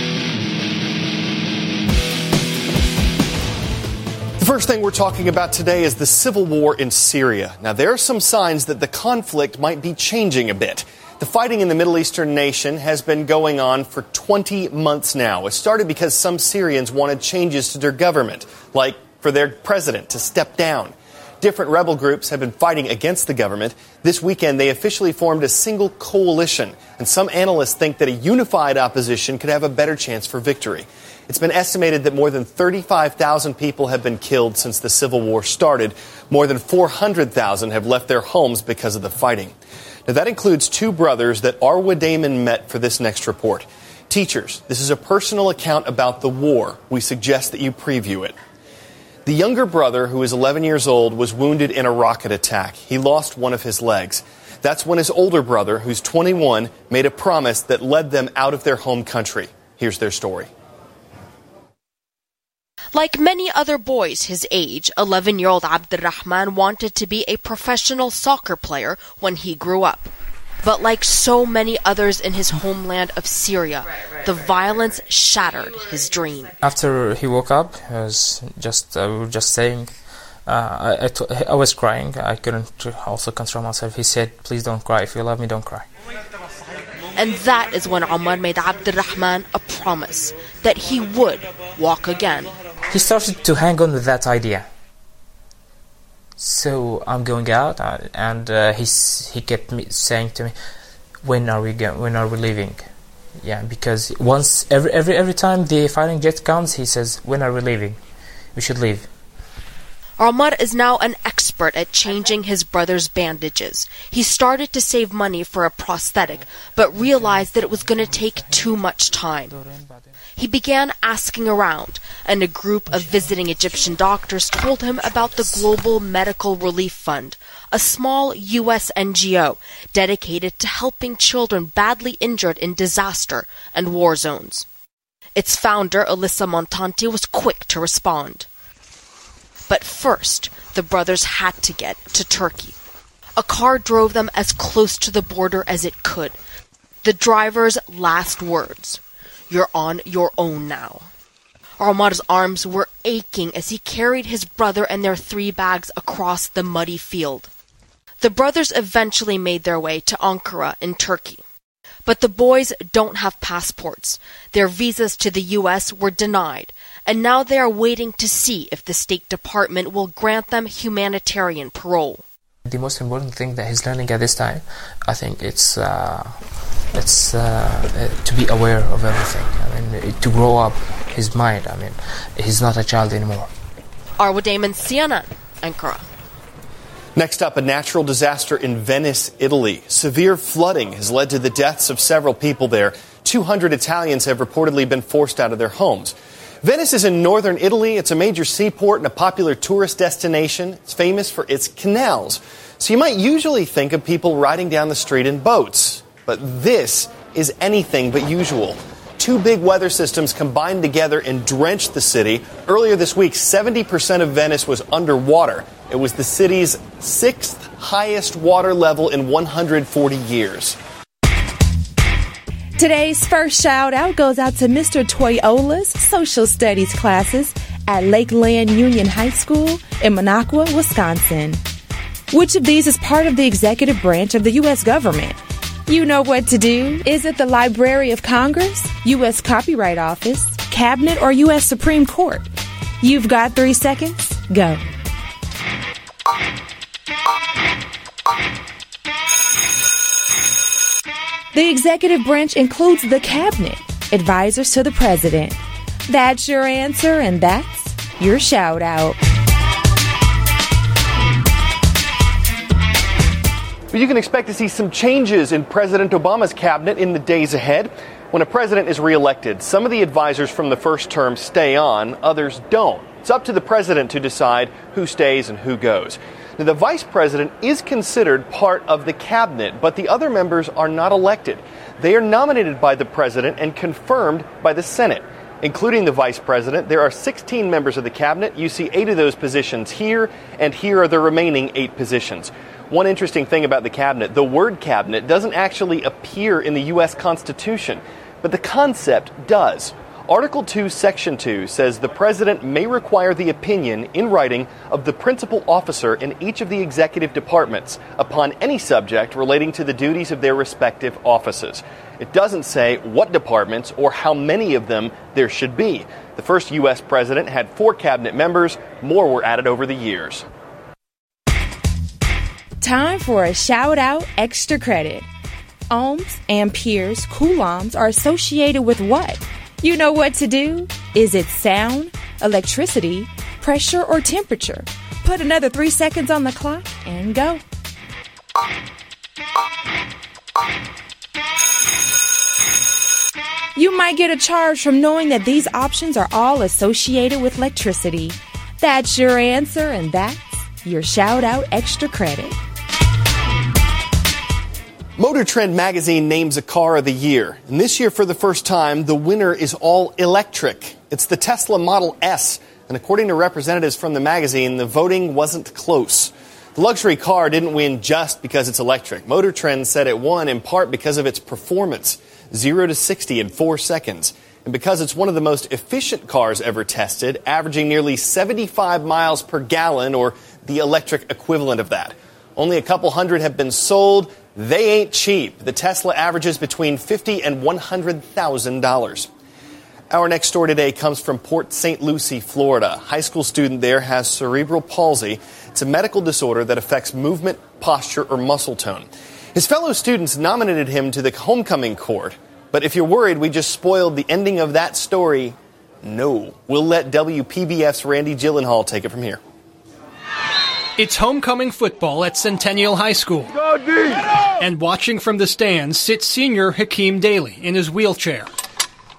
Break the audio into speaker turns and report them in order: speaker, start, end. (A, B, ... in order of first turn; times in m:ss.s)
0:04.4-0:39.5 A
0:40.1-0:48.4 A
0:49.2-1:00.5 A
1:02.9-1:10.1 B
1:10.6-1:16.6 B
1:16.6-1:19.9 C
1:20.4-1:25.9 C
1:27.2-1:32.5 B
1:32.9-1:34.7 C
1:36.4-1:40.6 C
1:41.2-1:42.9 C
1:43.4-1:48.0 C
1:48.6-1:49.1 C
1:50.2-1:59.6 B
1:59.5-1:59.9 C
2:00.4-2:14.7 B
2:15.4-2:18.5 B
2:19.7-2:22.8 B
2:23.4-2:26.4 B
2:27.0-2:31.1 B
2:31.8-2:37.5 B
2:38.2-2:41.4 B
2:42.0-2:52.2 B
2:52.7-2:56.4 C
2:56.9-3:03.5 C
3:04.2-3:06.0 B
3:07.2-3:40.8 A
3:42.8-3:51.6 D
3:52.3-4:02.5 D
4:03.0-4:04.8 D
4:11.5-4:19.2 D
4:23.9-5:20.4 A
5:22.8-5:25.3 D
5:25.9-5:37.6 D
5:43.8-5:52.6 D
5:55.2-6:29.3 A
6:30.1-6:49.4 A
6:51.0-6:53.6 E
6:54.6-6:58.5 E